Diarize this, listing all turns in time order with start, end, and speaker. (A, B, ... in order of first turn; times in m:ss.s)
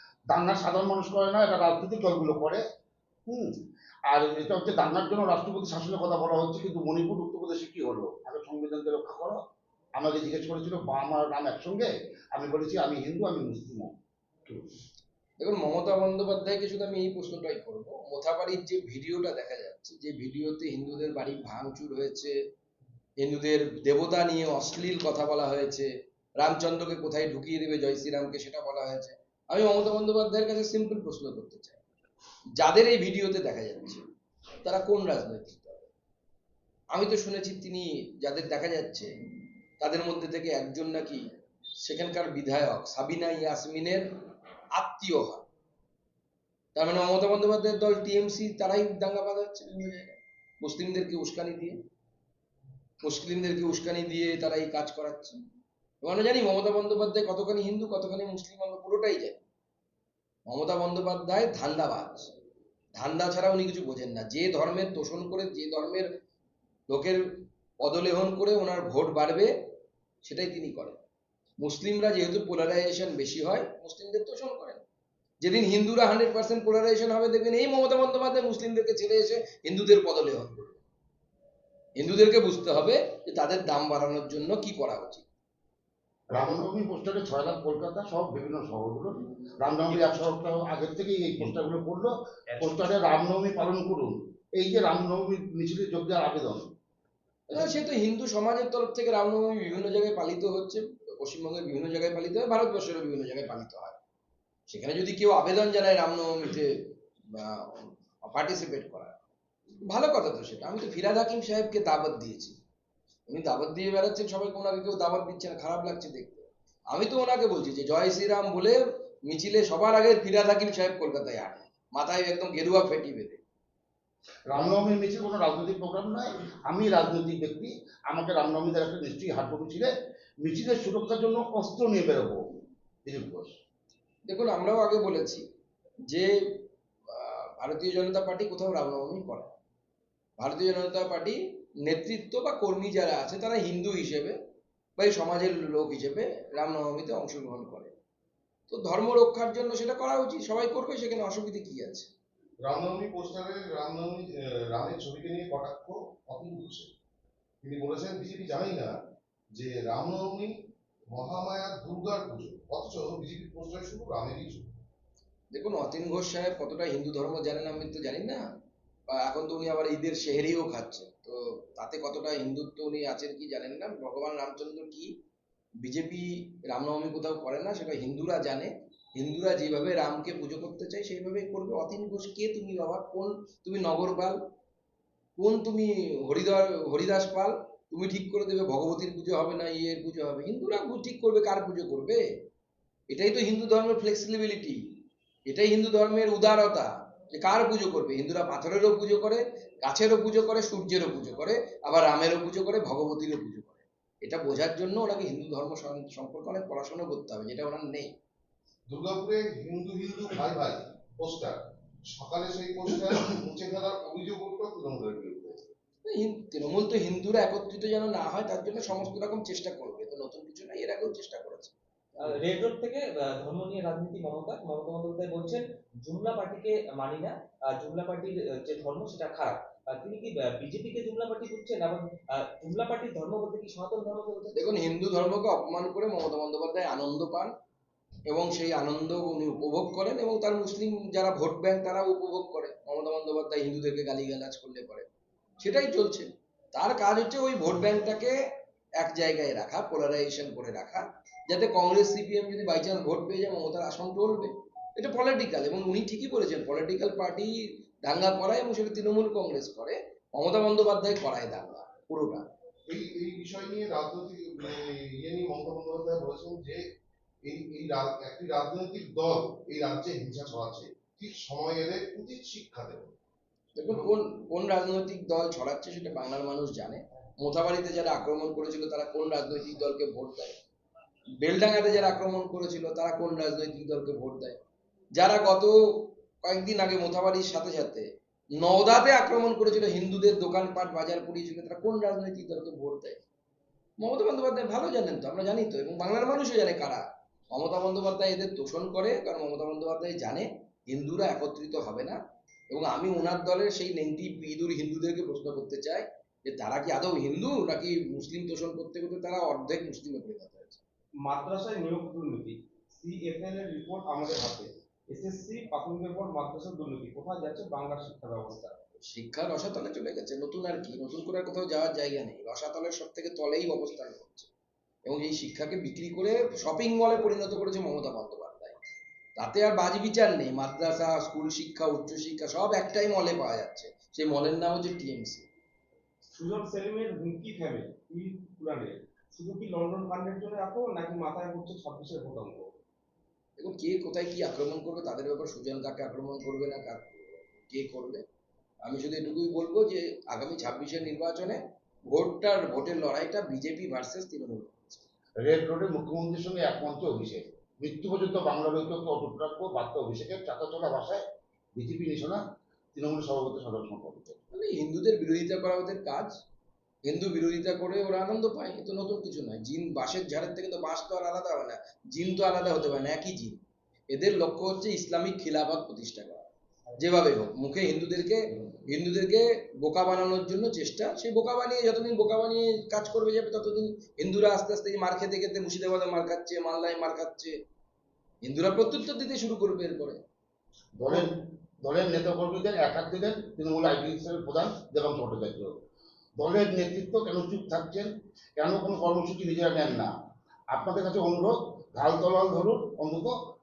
0:00.3-0:02.6 A
0:03.3-0:03.5 A
0:04.1-0:09.4 A
0:10.0-0:13.9 A
0:15.4-0:22.3 B
0:23.2-0:31.8 B
0:32.6-0:34.0 B
0:34.6-0:35.9 B
0:36.9-0:39.1 B
0:39.8-0:41.2 B
0:41.8-0:44.1 B
0:44.7-0:45.4 B
0:46.7-0:51.8 B
0:53.0-0:55.4 B
0:56.0-0:59.4 B
1:00.5-1:02.3 B
1:02.9-1:06.1 B
1:06.9-1:09.5 B
1:10.2-1:11.0 B
1:11.6-1:14.8 B
1:15.4-1:20.8 B
1:22.0-1:25.2 B
1:26.3-1:36.7 A
1:37.5-1:44.0 B
1:44.7-1:49.2 B
1:49.8-1:52.5 B
1:53.3-2:03.4 B
2:04.5-2:09.9 A
2:10.4-2:12.4 A
2:13.0-2:13.5 A
2:14.2-2:15.4 B
2:16.1-2:16.3 B
2:17.1-2:19.6 B
2:20.4-2:24.4 B
2:25.0-2:27.9 B
2:28.7-2:32.1 B
2:32.6-2:36.9 C
2:37.6-2:39.0 C
2:39.5-2:40.5 C
2:41.1-2:44.7 C
2:45.5-2:48.4 B
2:49.1-2:55.1 B
2:55.8-3:04.4 B
3:05.4-3:12.2 B
3:13.1-3:14.8 B
3:15.5-3:28.1 B
3:28.9-3:35.6 C
3:36.0-3:41.7 B
3:42.2-3:54.7 D
3:54.5-3:57.5 B
3:58.3-4:05.1 B
4:05.6-4:08.4 B
4:09.0-4:22.5 B
4:22.9-4:26.8 C
4:27.4-4:33.1 C
4:33.7-4:40.5 B
4:41.4-4:44.6 B
4:45.1-4:48.1 B
4:48.6-4:53.2 B
4:54.0-5:02.2 B
5:02.7-5:10.8 B
5:11.2-5:18.8 E
5:19.0-5:24.5 B
5:25.0-5:28.8 B
5:29.4-5:35.4 B
5:36.3-5:42.7 E
5:43.6-5:48.2 B
5:48.8-5:55.0 B
5:55.4-6:01.2 A
6:01.8-6:02.4 A
6:02.9-6:04.4 A
6:04.5-6:06.4 B
6:07.0-6:16.4 B
6:17.0-6:27.6 B
6:28.4-6:30.2 B
6:31.0-6:35.7 A
6:36.4-6:40.1 A
6:40.7-6:43.3 A